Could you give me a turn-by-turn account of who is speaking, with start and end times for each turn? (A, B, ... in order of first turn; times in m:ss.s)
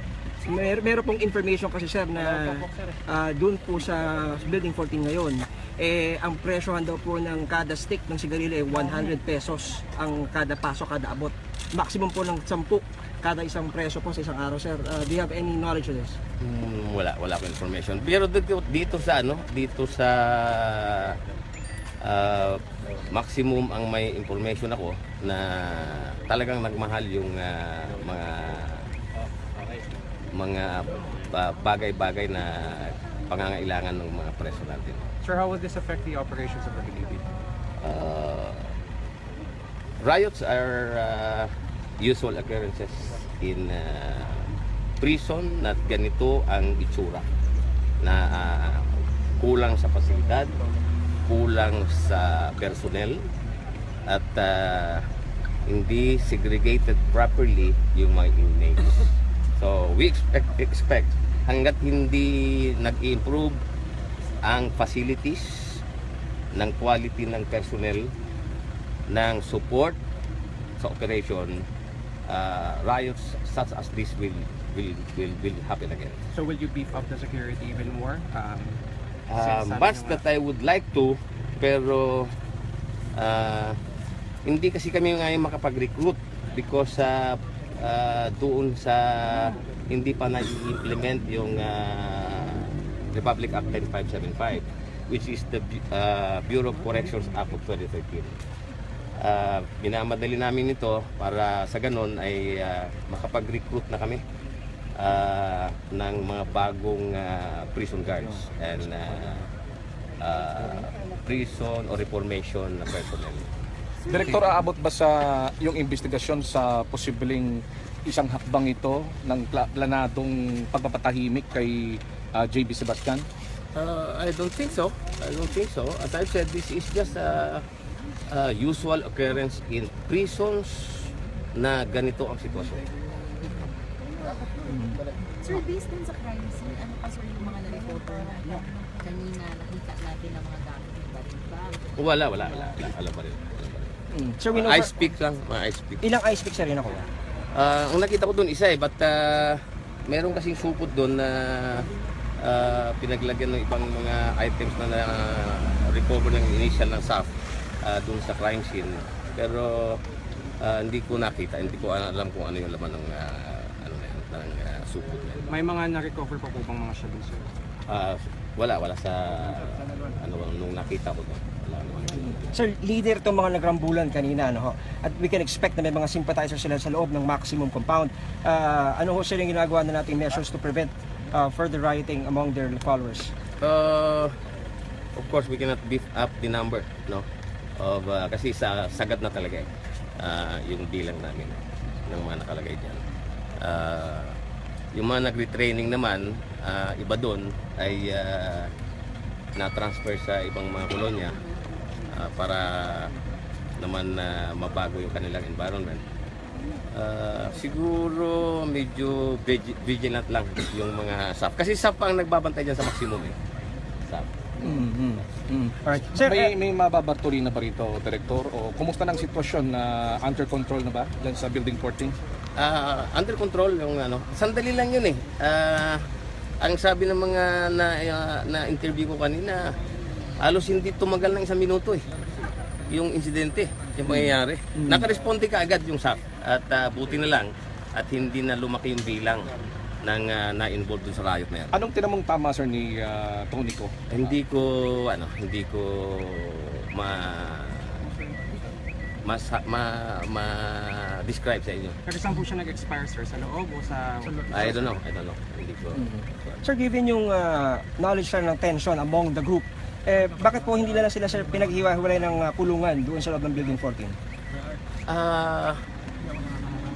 0:00.4-0:16.2 A
0:16.4-0:21.2 B
0:22.0-0:28.8 B
0:30.4-0:35.0 B
0:35.2-0:37.2 C
0:37.8-0:38.7 B
0:40.0-0:44.4 B
0:45.0-0:47.3 B
0:48.0-0:50.5 B
0:51.3-0:53.2 B
0:54.1-0:55.1 B
0:55.6-1:03.6 B
1:04.4-1:05.8 B
1:06.6-1:08.1 B
1:09.1-1:10.0 B
1:10.8-1:11.6 B
1:12.3-1:16.2 B
1:16.3-1:18.8 C
1:19.3-1:22.3 B
1:19.4-1:20.2 C
1:23.2-1:23.8 B
1:24.5-1:38.4 B
1:39.2-1:44.2 B
1:45.0-1:49.5 B
1:50.2-1:53.5 B
1:54.1-2:03.3 D
2:03.8-2:07.6 B
2:08.3-2:12.8 B
2:14.7-2:15.0 A
2:15.4-2:21.9 E
2:22.0-2:26.0 B
2:24.1-2:24.9 A
2:26.0-2:27.1 A
2:27.5-2:31.9 B
2:32.4-2:37.3 B
2:37.8-2:40.0 B
2:40.6-2:45.6 B
2:45.5-2:47.5 C
2:47.9-2:52.5 B
2:52.5-3:03.3 A
3:03.6-3:04.3 B
3:05.2-3:07.3 B
3:07.8-3:13.0 B
3:13.6-3:14.4 B
3:14.9-3:18.7 B
3:19.6-3:21.4 B
3:22.1-3:23.1 B
3:23.8-3:26.0 B
3:26.9-3:33.4 B
3:34.6-3:36.5 A
3:36.2-3:42.2 D
3:42.6-3:46.1 B
3:46.6-3:49.8 B
3:50.4-3:52.1 B
3:52.9-3:59.5 B
4:00.0-4:01.8 B
4:01.7-4:03.9 D
4:04.1-4:08.0 B
4:08.1-4:08.4 C
4:09.2-4:12.0 B
4:12.1-4:14.9 C
4:14.5-4:16.0 B
4:16.0-4:24.2 A
4:25.1-4:25.8 B